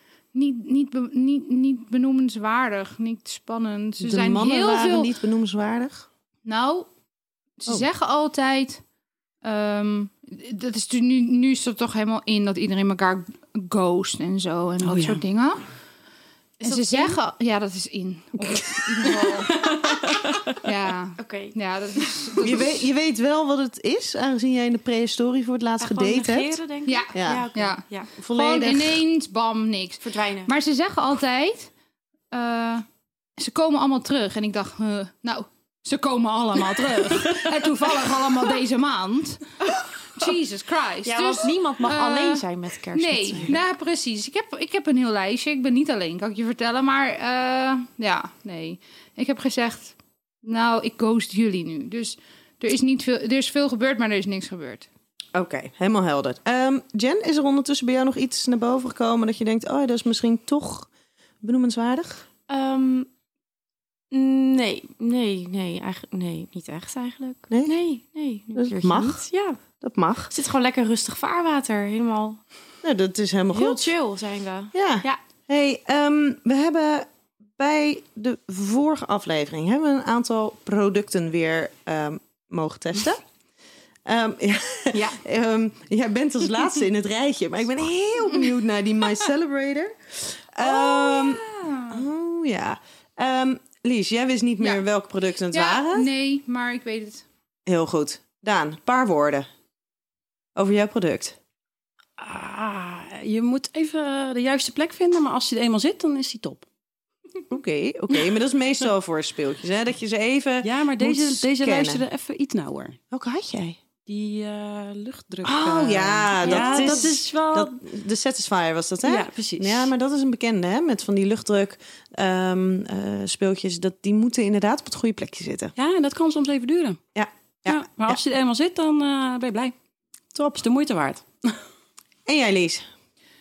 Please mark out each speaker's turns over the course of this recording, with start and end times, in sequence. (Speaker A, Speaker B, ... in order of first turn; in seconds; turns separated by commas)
Speaker A: 0.3-5.1, Speaker B: 4.0-6.1, Speaker A: 6.5-6.9, Speaker A: 7.6-8.8, Speaker A: 9.4-15.6, Speaker C: 14.8-15.2, Speaker D: 16.6-17.2, Speaker A: 16.6-19.7, Speaker D: 19.1-19.9, Speaker A: 20.6-22.8, Speaker D: 21.2-21.6, Speaker B: 22.4-26.6, Speaker D: 25.8-28.1, Speaker A: 26.9-31.7, Speaker B: 27.1-27.5, Speaker B: 28.2-29.0, Speaker D: 30.0-30.5, Speaker A: 32.3-32.9, Speaker A: 33.4-39.6, Speaker A: 40.1-54.9, Speaker D: 41.0-43.6, Speaker B: 55.3-60.9, Speaker B: 61.4-62.3, Speaker D: 62.5-63.1, Speaker D: 64.1-69.6, Speaker B: 67.5-67.8, Speaker B: 68.5-69.2, Speaker B: 69.8-70.3, Speaker D: 70.3-72.4, Speaker B: 72.8-73.8, Speaker D: 73.5-75.2, Speaker B: 74.7-83.2, Speaker B: 84.1-96.1, Speaker A: 90.6-92.0, Speaker A: 95.5-97.2, Speaker B: 97.7-99.5, Speaker B: 100.5-101.4, Speaker C: 102.2-106.7, Speaker B: 107.5-112.0, Speaker C: 110.6-113.0, Speaker B: 113.1-113.8, Speaker C: 114.1-117.8, Speaker B: 115.4-125.7, Speaker D: 116.4-117.2, Speaker C: 119.0-119.9, Speaker C: 125.8-127.0, Speaker B: 127.2-128.2, Speaker C: 127.7-129.7, Speaker B: 130.3-130.6, Speaker C: 130.5-131.6, Speaker B: 132.3-132.9